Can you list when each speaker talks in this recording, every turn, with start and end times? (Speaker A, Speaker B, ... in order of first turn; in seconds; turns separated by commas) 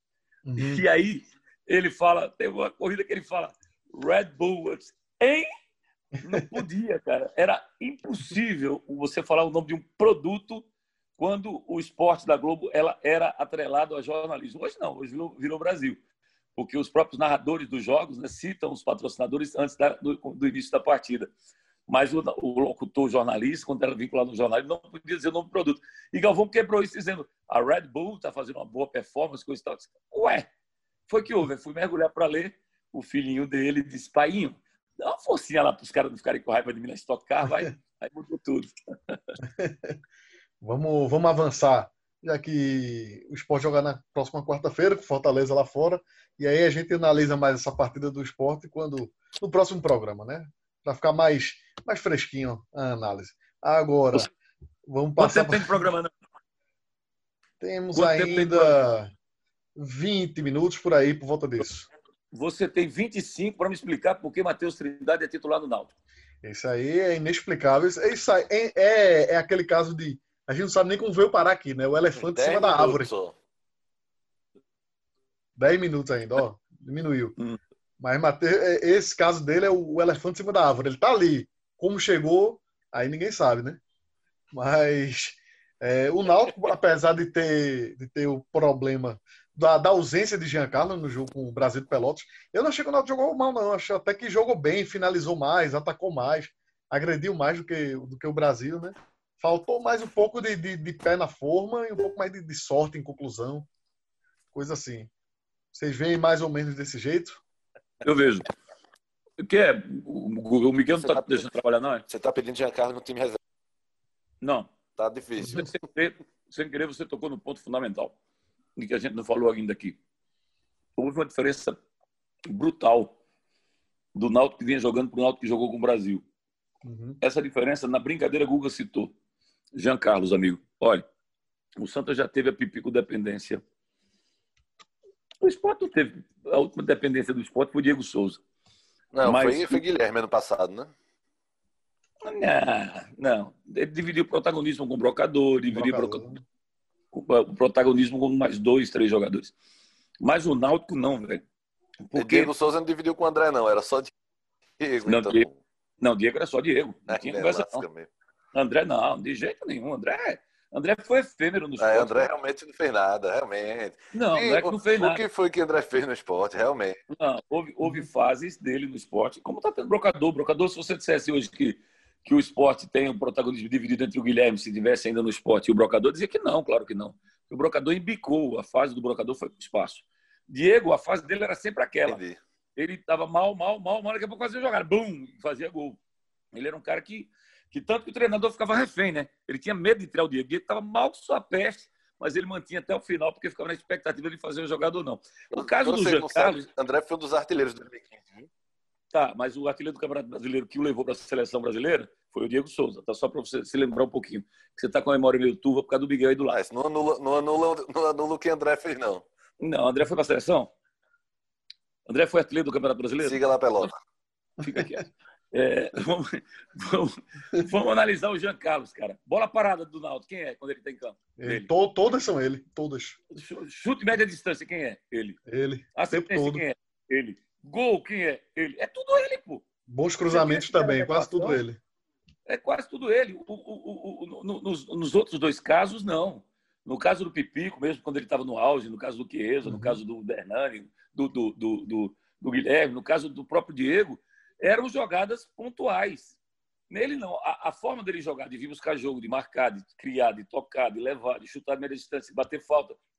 Speaker A: 0.5-0.8, Speaker B: 0.6-5.5, Speaker B: 6.2-10.7, Speaker B: 11.2-16.0, Speaker B: 16.6-21.3, Speaker B: 21.9-30.5, Speaker B: 31.1-39.4, Speaker A: 39.4-40.0, Speaker A: 40.6-54.3, Speaker A: 54.9-55.9, Speaker B: 55.2-56.1, Speaker A: 57.6-59.1, Speaker B: 57.9-58.9, Speaker A: 59.8-61.9, Speaker B: 62.3-65.9, Speaker A: 66.4-73.1, Speaker C: 72.2-73.3, Speaker A: 75.6-77.3, Speaker A: 78.0-83.8, Speaker A: 84.5-103.7, Speaker A: 104.5-105.1, Speaker A: 105.7-107.4, Speaker B: 108.0-108.5, Speaker B: 109.4-112.0, Speaker C: 111.0-111.5, Speaker C: 112.1-113.4, Speaker B: 114.4-114.7, Speaker C: 115.0-115.8, Speaker B: 115.4-118.2, Speaker B: 118.8-120.0, Speaker B: 121.0-121.8, Speaker B: 122.5-123.2, Speaker B: 124.2-126.2, Speaker A: 126.8-127.2, Speaker B: 127.2-129.1, Speaker B: 129.8-131.0, Speaker B: 131.8-133.6, Speaker B: 135.4-138.4, Speaker C: 139.1-140.9, Speaker B: 139.2-139.8, Speaker B: 142.2-146.3, Speaker A: 145.7-146.4, Speaker B: 147.1-149.5, Speaker B: 150.2-151.4, Speaker B: 152.1-152.5, Speaker C: 152.2-154.1, Speaker C: 154.8-155.6, Speaker B: 155.1-155.5, Speaker B: 156.0-157.8, Speaker C: 157.1-158.1, Speaker B: 158.5-162.3, Speaker C: 161.8-167.0, Speaker B: 164.1-165.2, Speaker B: 167.1-182.2, Speaker C: 182.1-182.4, Speaker B: 182.8-186.0, Speaker B: 186.5-196.7, Speaker C: 195.5-198.5, Speaker B: 199.1-206.6, Speaker C: 206.5-209.2, Speaker B: 209.6-210.7, Speaker B: 212.1-213.9, Speaker C: 213.2-213.9, Speaker B: 214.6-221.7, Speaker A: 221.4-223.2, Speaker B: 223.3-225.4, Speaker A: 225.5-226.6, Speaker B: 225.9-229.7, Speaker A: 229.9-231.8, Speaker B: 230.3-231.6, Speaker B: 232.5-246.4, Speaker A: 239.6-240.0, Speaker B: 246.9-253.0